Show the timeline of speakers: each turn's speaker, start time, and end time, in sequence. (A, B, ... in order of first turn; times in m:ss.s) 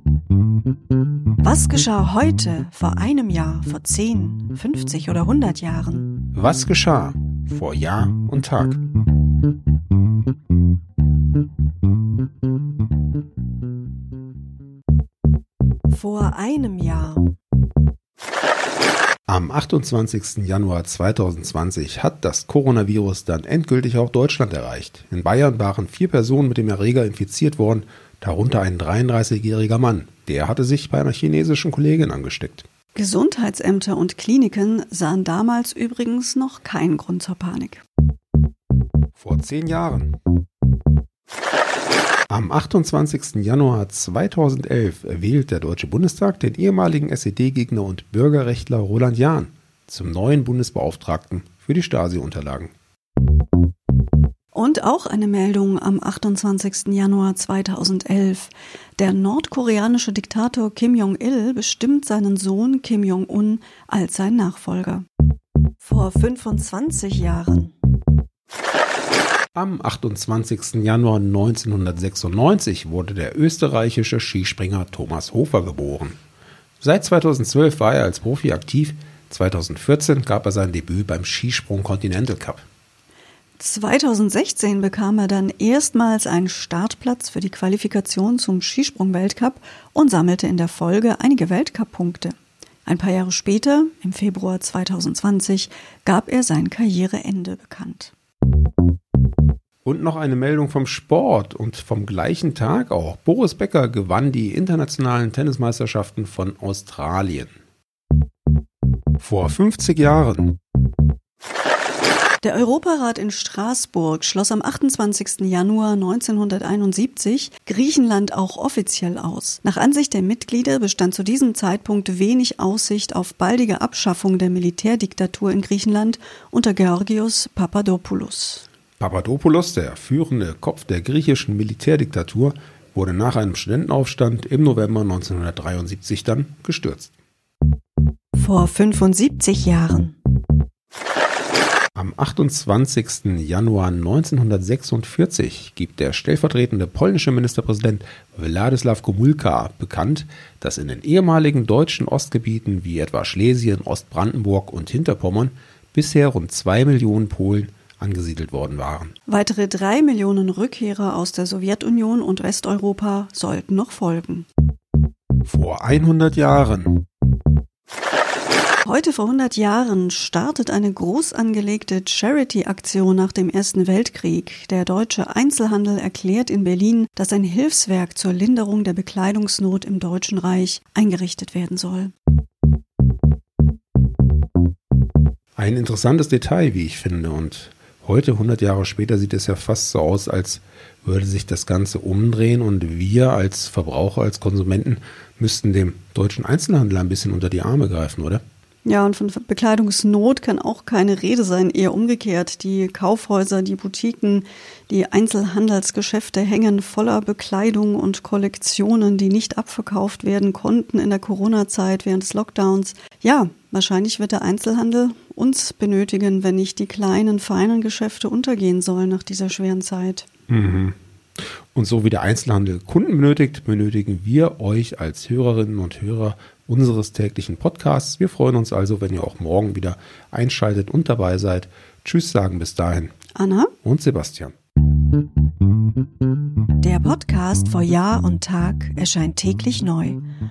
0:01.4-0:06.1 A
0:06.3-0:08.8 B
0:15.9-0:17.3 A
0:19.3-0:32.6 B
0:32.9-0:37.8 A
0:39.2-0:40.2 B
0:42.3-0:52.7 B
0:54.5-1:05.0 A
1:05.8-1:07.7 A
1:09.5-1:16.2 B
1:16.8-1:22.6 B
1:23.6-1:38.1 A
1:39.8-1:47.5 B
1:49.2-1:50.6 B
1:52.4-2:08.6 A
2:09.0-2:17.1 B
2:18.3-2:20.1 A
2:21.9-2:39.1 B
2:39.3-2:44.5 A
2:45.4-2:47.0 B
2:48.8-3:02.1 A
3:05.6-3:18.4 B
3:18.8-3:40.2 A
3:40.5-3:53.1 B
3:53.3-3:53.7 A
3:53.8-3:54.5 B
3:56.8-4:00.2 A